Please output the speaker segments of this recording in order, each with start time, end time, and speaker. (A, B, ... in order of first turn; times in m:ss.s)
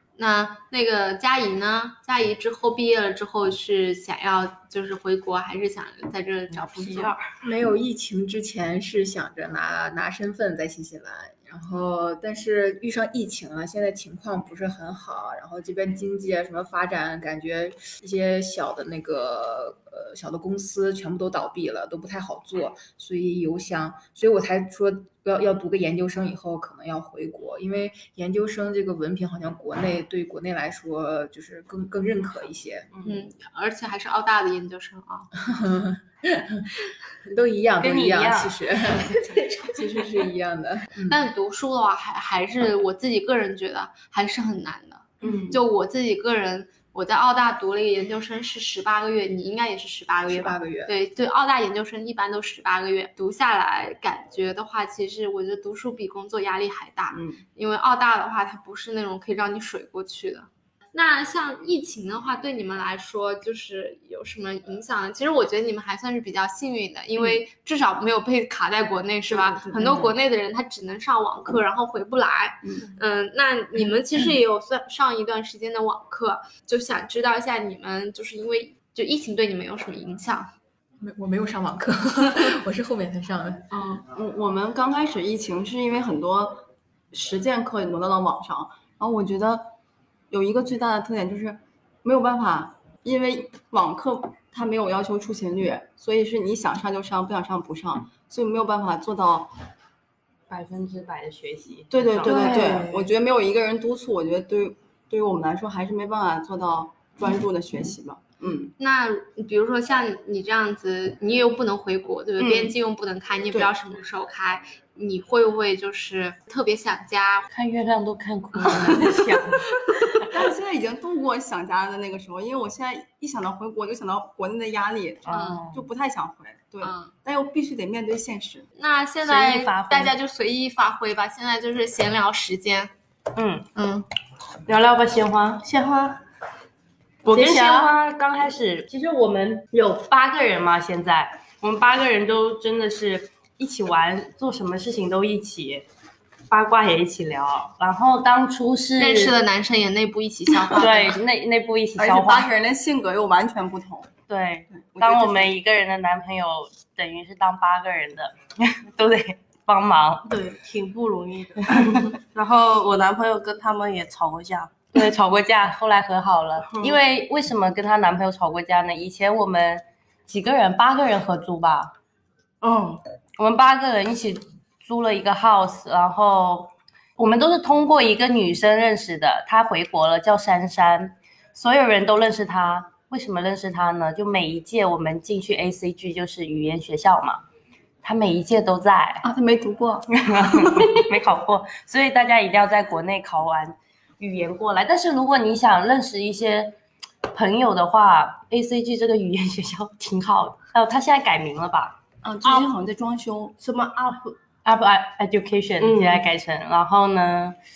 0:00.2-0:07.1 A
0:06.5-0:07.2 B
0:07.4-0:32.9 C
0:33.0-0:35.3 A
0:35.4-0:36.7 C
0:37.2-0:41.2 C
0:37.8-0:38.6 B
0:41.0-1:20.5 A
0:45.2-0:45.6 B
0:50.3-0:50.9 C
0:57.1-0:57.4 D
1:09.3-1:10.1 D
1:21.0-1:23.7 C
1:24.0-1:29.7 D
1:30.3-1:39.5 D
1:40.5-1:42.8 B
1:41.9-1:48.7 D
1:42.2-1:43.1 E
1:48.8-1:57.4 A
1:52.4-1:52.7 B
1:57.5-2:00.3 B
1:58.6-1:59.2 A
2:00.3-2:08.7 D
2:05.2-2:05.8 B
2:05.3-2:05.6 A
2:06.8-2:07.1 A
2:08.8-2:12.9 A
2:09.2-2:10.1 B
2:13.3-2:13.7 B
2:13.8-2:14.0 A
2:14.6-2:15.6 B
2:15.6-2:16.2 E
2:17.2-2:25.8 B
2:17.2-2:17.9 E
2:26.5-2:29.3 B
2:29.0-2:31.2 A
2:30.6-2:32.5 B
2:32.0-2:34.1 D
2:34.3-2:40.3 B
2:34.7-2:35.5 D
2:40.2-2:44.9 E
2:41.8-2:42.1 B
2:44.9-2:51.9 B
2:52.6-2:53.0 E
2:53.4-3:07.4 B
3:08.0-3:09.2 B
3:09.2-3:11.0 D
3:10.1-3:16.7 B
3:17.3-3:22.0 B
3:22.2-3:23.5 D
3:23.6-3:24.3 E
3:24.6-3:27.6 B
3:25.8-3:26.3 E